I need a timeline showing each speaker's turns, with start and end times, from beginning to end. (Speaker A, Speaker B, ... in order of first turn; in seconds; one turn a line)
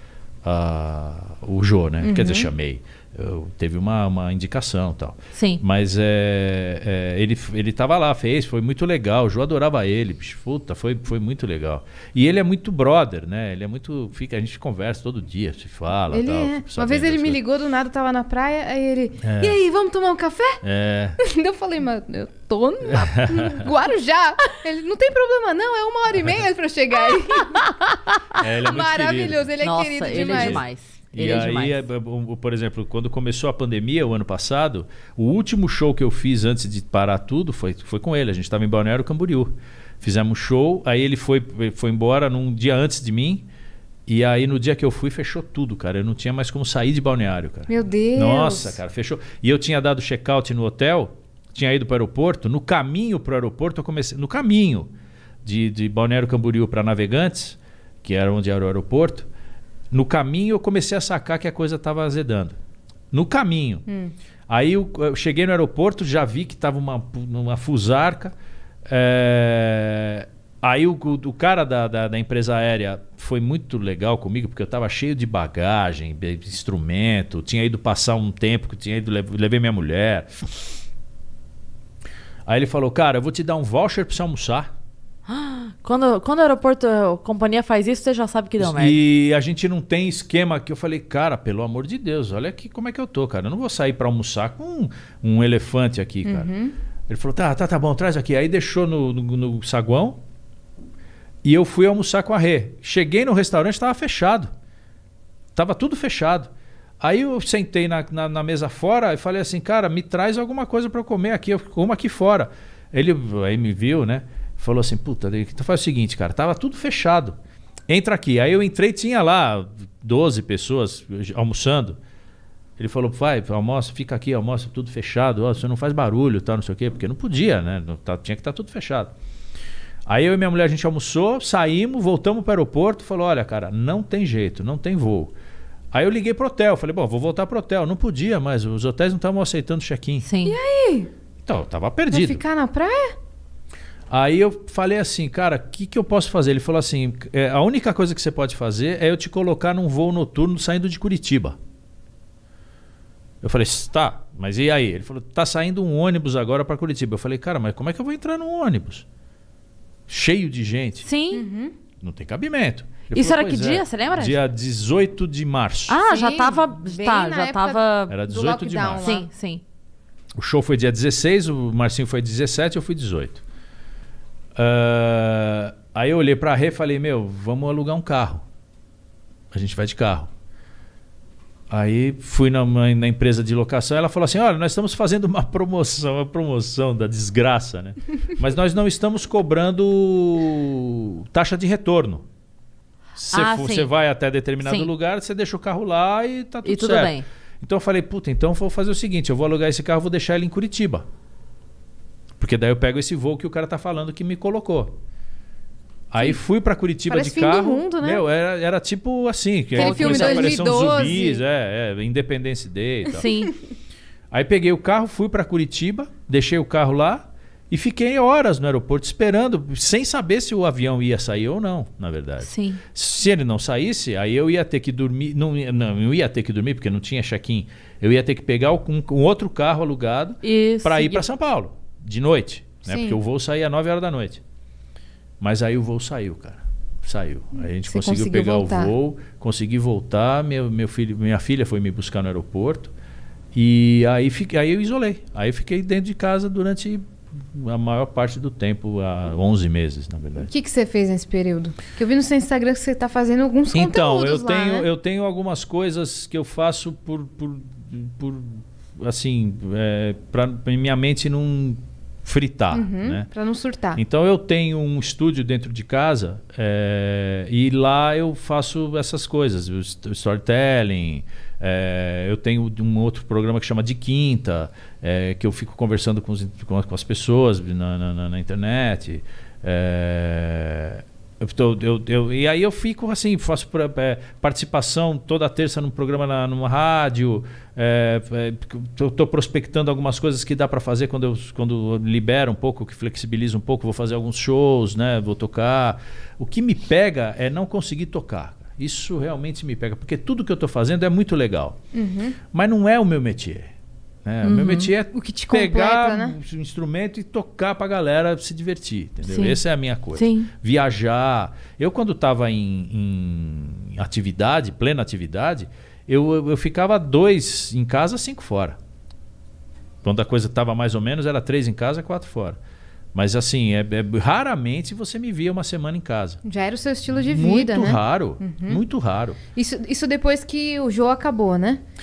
Speaker A: 0.4-17.4
Speaker B: 2.0-2.5
Speaker C: 5.3-5.6
Speaker B: 16.1-20.6
Speaker A: 19.2-19.6
Speaker A: 20.6-21.2
Speaker B: 21.2-28.0
Speaker A: 22.9-23.6
Speaker A: 28.3-29.5
Speaker B: 28.6-30.6
Speaker C: 29.6-31.8
Speaker A: 30.0-43.4
Speaker A: 44.1-54.9
Speaker B: 47.7-48.8
Speaker A: 55.4-59.3
Speaker A: 59.9-62.6
Speaker A: 63.1-63.8
Speaker B: 63.9-64.1
Speaker A: 64.5-80.3
Speaker A: 82.5-84.7
Speaker C: 85.3-89.0
Speaker A: 88.6-96.5
Speaker B: 96.2-96.7
Speaker A: 97.1-100.2
Speaker A: 101.4-104.5
Speaker A: 105.5-117.4
Speaker A: 117.9-122.0
Speaker A: 122.8-129.1
Speaker A: 130.1-135.3
Speaker A: 135.9-140.2
Speaker C: 140.2-140.6
Speaker B: 140.4-141.1
Speaker A: 141.4-142.4
Speaker B: 142.1-143.2
Speaker A: 144.1-151.6
Speaker A: 153.4-159.0
Speaker A: 160.1-161.1
Speaker C: 161.0-161.4
Speaker B: 161.3-161.7
Speaker A: 162.0-166.0
Speaker C: 163.1-164.4
Speaker C: 165.9-168.2
Speaker B: 166.1-169.2
Speaker A: 168.1-169.2
Speaker C: 169.0-169.6
Speaker A: 170.4-173.4
Speaker A: 174.6-178.4
Speaker A: 179.5-180.3
Speaker A: 181.7-192.2
Speaker A: 193.2-201.0
Speaker C: 193.3-193.9
Speaker C: 194.6-194.9
Speaker C: 196.6-197.2
Speaker A: 202.4-205.0
Speaker A: 206.1-213.3
Speaker B: 207.1-208.2
Speaker C: 209.7-210.7
Speaker B: 209.8-211.4
Speaker C: 213.1-213.5
Speaker A: 214.3-234.4
Speaker C: 222.4-222.8
Speaker C: 230.4-231.2
Speaker B: 232.8-233.2
Speaker A: 235.4-242.9
Speaker B: 237.8-238.9
Speaker A: 243.5-250.5
Speaker B: 250.4-254.9
Speaker A: 253.7-263.3
Speaker B: 262.7-264.0
Speaker A: 263.9-301.8
Speaker B: 301.9-302.4
Speaker A: 302.5-303.7
Speaker A: 304.2-318.8
Speaker C: 304.4-304.9
Speaker B: 305.1-306.4
Speaker C: 309.2-309.6
Speaker C: 310.1-310.5
Speaker A: 320.0-322.6
Speaker A: 323.1-326.4
Speaker B: 326.4-328.8
Speaker A: 327.1-329.4
Speaker B: 329.5-331.8